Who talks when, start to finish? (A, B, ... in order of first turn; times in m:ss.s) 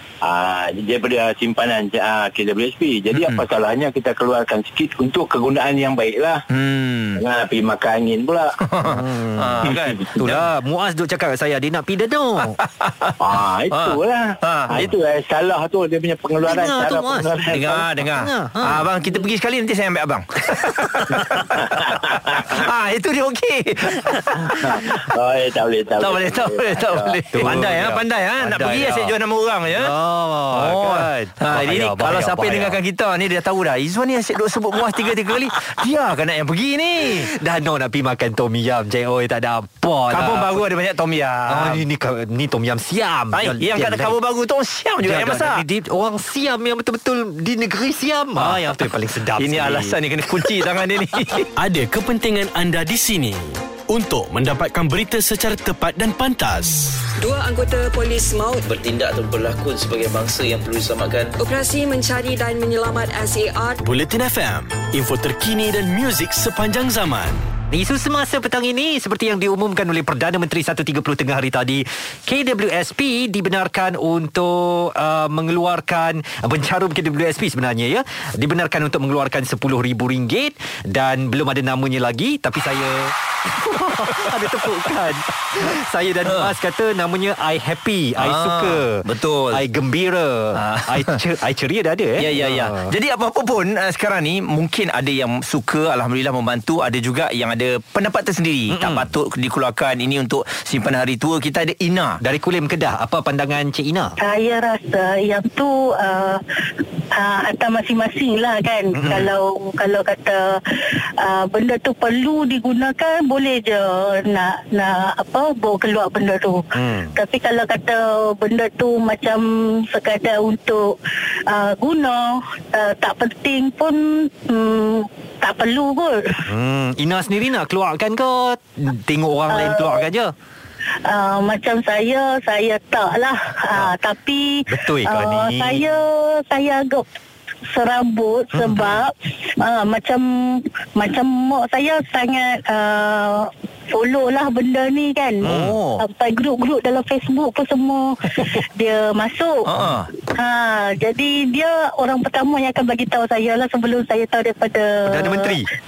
0:00.2-0:06.4 A
0:03.1-0:03.4 B
0:06.5-0:07.2 B
0:07.2-0:08.6 A
0:08.7-0:10.5 B
0:08.8-0:12.6 C
0:12.6-0:13.2 B
0:13.2-0:17.9 A
0:13.7-0:15.0 B
0:16.4-0:17.4 C
0:17.5-0:25.0 B
0:18.0-0:18.9 C
0:24.6-0:27.2 A
0:26.0-0:29.9 B
0:27.3-0:29.2 C
0:29.7-0:32.8 C
0:30.5-0:37.3 B
0:37.1-0:40.6 C
0:40.1-0:41.8 B
0:41.5-0:44.2 C
0:43.3-0:45.6 B
0:45.0-0:50.6 C
0:48.4-0:51.5 B
0:51.6-0:57.0 D
0:57.2-0:58.7 E
0:58.6-1:01.4 F
1:01.4-1:03.8 E
1:03.8-1:07.5 D
1:07.7-1:32.9 C
1:24.0-1:24.3 B
1:26.3-1:26.5 B
1:28.2-1:29.6 B
1:30.6-1:31.2 B
1:32.2-1:42.2 B
1:38.7-1:39.1 C
1:42.2-1:44.2 C
1:44.2-1:46.4 G
1:47.1-1:50.6 G
1:48.9-1:49.3 C
1:51.2-2:01.0 G
1:56.7-1:57.2 C
2:01.5-2:06.4 G
2:06.5-2:10.3 C
2:09.5-2:10.1 G
2:11.0-2:17.1 G
2:14.7-2:15.9 C
2:17.7-2:25.5 G
2:18.5-2:19.0 C
2:25.4-2:26.0 B
2:25.4-2:25.8 C
2:26.0-2:29.7 G
2:29.7-2:30.1 B
2:30.3-2:35.6 G
2:35.1-2:35.7 C